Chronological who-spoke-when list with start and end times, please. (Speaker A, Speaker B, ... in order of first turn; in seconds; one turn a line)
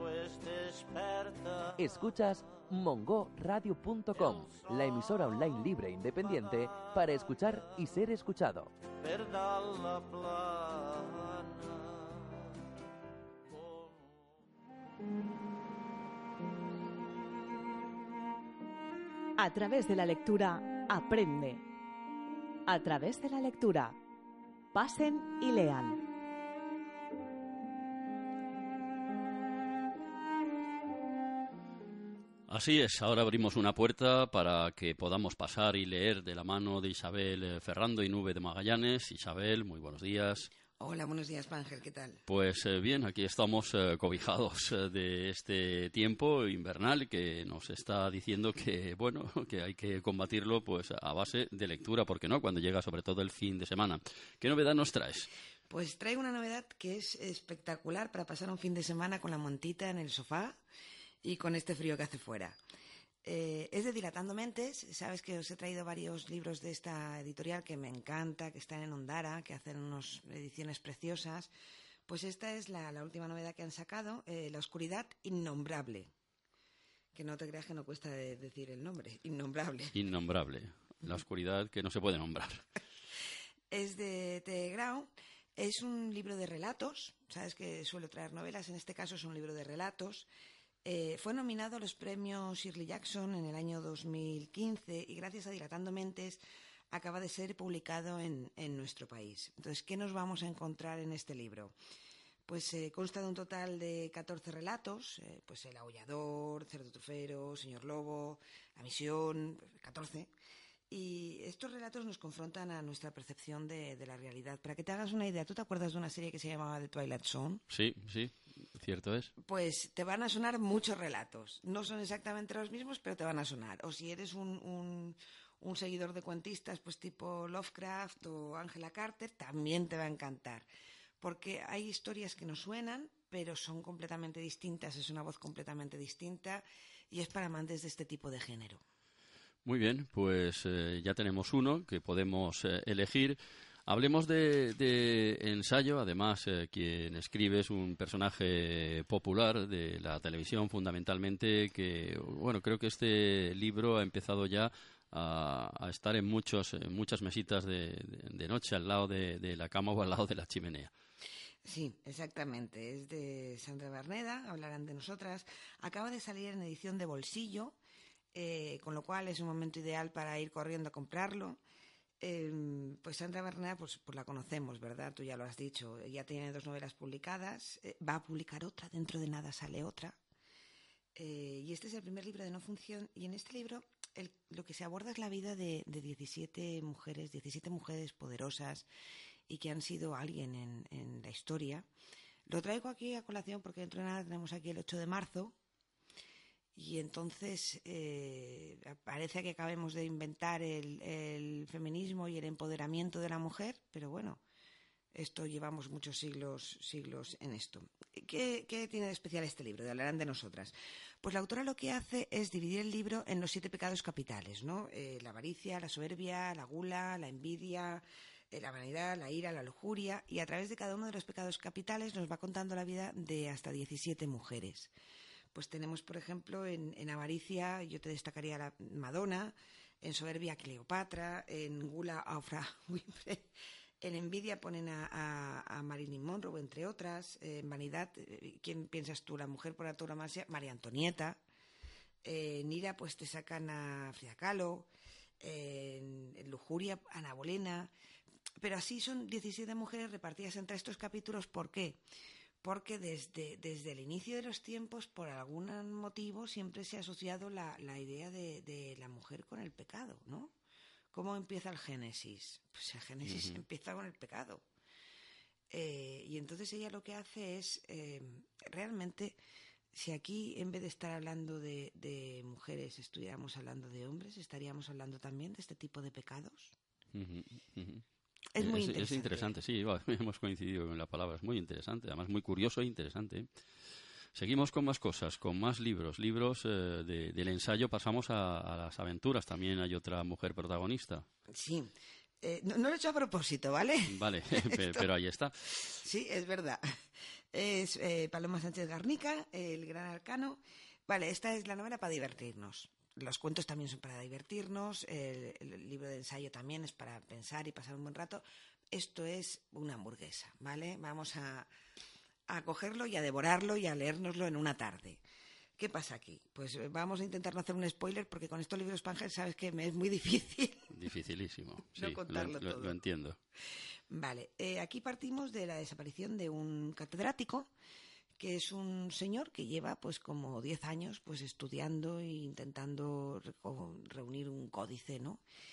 Speaker A: 1.8-8.7
Speaker B: 19.4-21.6
Speaker B: 22.7-24.0
Speaker B: 24.7-26.0
Speaker C: 32.5-40.5
Speaker D: 40.8-42.2
Speaker C: 42.3-55.3
Speaker D: 55.7-60.6
Speaker D: 61.2-62.6
Speaker D: 63.2-71.5
Speaker D: 72.1-76.1
Speaker D: 77.1-80.0
Speaker C: 79.9-82.6
Speaker D: 83.7-90.3
Speaker D: 90.8-96.4
Speaker D: 96.9-101.8
Speaker D: 102.5-110.3
Speaker D: 110.9-117.6
Speaker C: 117.7-119.3
Speaker D: 119.4-130.7
Speaker D: 131.2-138.8
Speaker C: 139.7-160.9
Speaker D: 161.7-167.8
Speaker D: 168.3-171.6
Speaker D: 172.2-180.2
Speaker D: 181.2-188.9
Speaker D: 189.5-191.9
Speaker D: 192.5-195.6
Speaker D: 196.8-204.4
Speaker D: 205.1-224.9
Speaker D: 225.5-233.5
Speaker D: 234.0-241.4
Speaker D: 242.2-244.9
Speaker D: 245.4-247.9
Speaker D: 248.6-252.0
Speaker D: 252.6-260.5
Speaker D: 261.1-264.6
Speaker C: 263.2-263.6
Speaker D: 265.7-269.4
Speaker D: 269.9-276.8
Speaker C: 277.1-278.0
Speaker D: 278.5-279.5
Speaker C: 278.6-283.5
Speaker C: 284.4-291.2
Speaker D: 291.5-295.1
Speaker C: 294.1-295.5
Speaker D: 295.8-296.8
Speaker D: 297.5-311.7
Speaker D: 312.5-315.2
Speaker D: 315.8-320.9
Speaker C: 320.9-323.4
Speaker D: 321.9-323.0
Speaker D: 324.1-327.7
Speaker D: 328.4-335.4